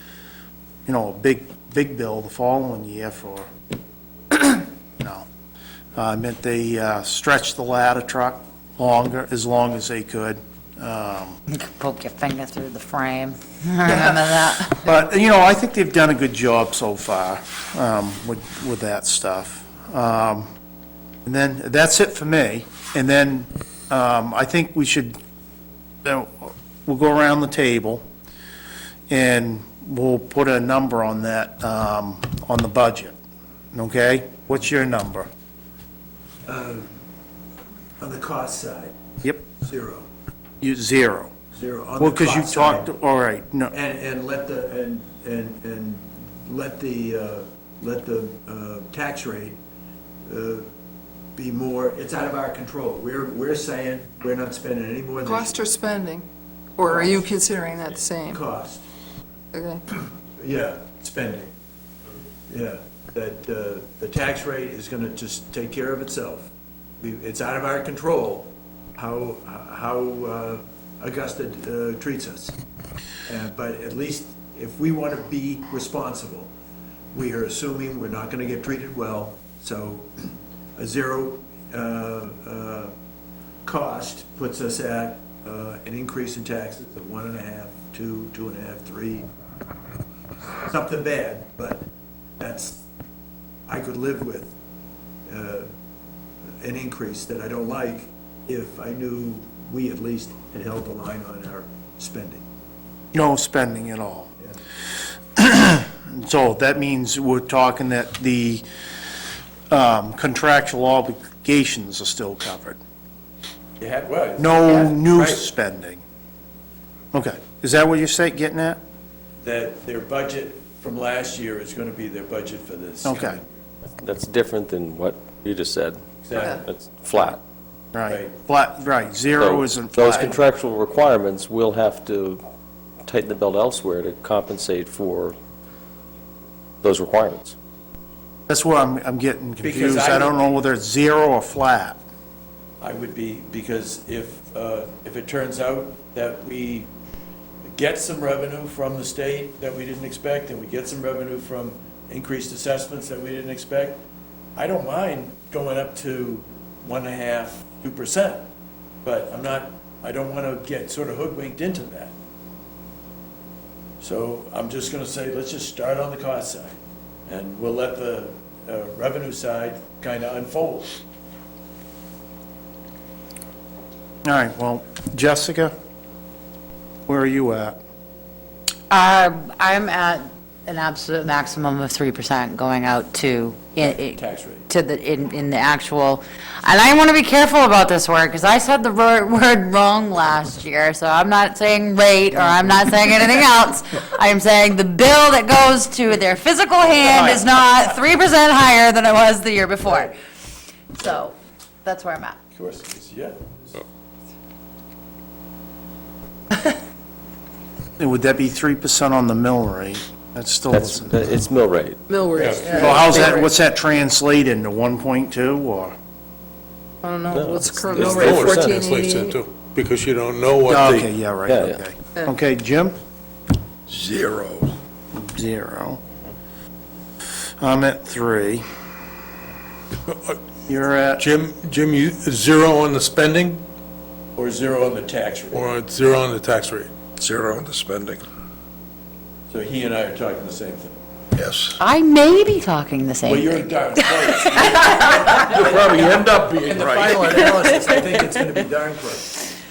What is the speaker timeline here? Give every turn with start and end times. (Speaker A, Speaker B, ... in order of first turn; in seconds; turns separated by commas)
Speaker A: 0.8-3.5, Speaker A: 4.3-5.3, Speaker A: 6.0-11.4, Speaker B: 11.5-14.9, Speaker A: 13.8-20.5, Speaker A: 21.2-25.2, Speaker A: 26.0-28.0, Speaker A: 29.1-33.2, Speaker A: 33.7-35.3, Speaker C: 36.5-36.9, Speaker C: 38.0-38.9, Speaker C: 39.6-40.1, Speaker A: 40.6-41.3, Speaker C: 41.5-42.9, Speaker A: 42.0-43.7, Speaker C: 43.7-49.6, Speaker C: 50.2-50.6, Speaker C: 51.4-55.6, Speaker D: 55.2-58.4, Speaker C: 56.8-57.3, Speaker C: 58.3-58.8, Speaker D: 59.5-59.8, Speaker C: 60.4-61.5, Speaker C: 62.5-66.5, Speaker C: 67.0-72.5, Speaker C: 73.2-76.5, Speaker C: 77.1-82.9, Speaker C: 83.6-89.3, Speaker C: 90.6-91.8, Speaker C: 92.4-92.8, Speaker C: 93.7-94.5, Speaker C: 95.3-95.7, Speaker C: 96.6-102.4, Speaker A: 103.1-104.3, Speaker A: 105.3-108.6, Speaker A: 109.7-112.8, Speaker C: 113.8-115.5, Speaker A: 114.4-116.0, Speaker A: 117.1-118.8, Speaker C: 119.4-123.4, Speaker A: 123.0-123.4, Speaker E: 124.0-127.4, Speaker C: 126.2-126.6, Speaker A: 127.9-130.4, Speaker C: 128.1-128.3, Speaker E: 129.3-132.4, Speaker E: 133.0-135.4, Speaker E: 136.8-137.6, Speaker A: 138.5-142.0, Speaker C: 139.6-140.4, Speaker C: 142.8-146.9, Speaker C: 147.7-154.0, Speaker C: 154.6-158.5, Speaker C: 159.0-162.1, Speaker C: 164.0-171.0, Speaker A: 174.2-175.7, Speaker A: 177.1-177.8, Speaker B: 178.9-200.2, Speaker C: 183.8-184.7, Speaker A: 192.3-192.8, Speaker A: 197.1-197.4, Speaker C: 199.8-200.1, Speaker B: 200.9-202.4, Speaker C: 202.5-203.7, Speaker A: 208.0-211.4, Speaker E: 210.7-212.0, Speaker D: 212.1-213.5, Speaker C: 212.4-213.1, Speaker F: 212.4-212.9, Speaker A: 212.6-215.9, Speaker D: 217.0-219.4, Speaker E: 217.3-218.9, Speaker F: 218.0-221.1, Speaker A: 220.7-223.0, Speaker E: 221.5-221.8, Speaker G: 223.9-224.7, Speaker A: 225.1-226.0, Speaker A: 227.6-228.6, Speaker F: 230.1-230.4, Speaker A: 230.7-231.2, Speaker F: 231.2-233.6, Speaker C: 234.4-235.7, Speaker F: 235.5-236.9, Speaker G: 237.2-238.2, Speaker C: 239.5-240.9, Speaker G: 241.3-241.8, Speaker B: 241.8-244.9, Speaker C: 243.2-249.4, Speaker A: 246.8-247.2, Speaker B: 247.2-247.8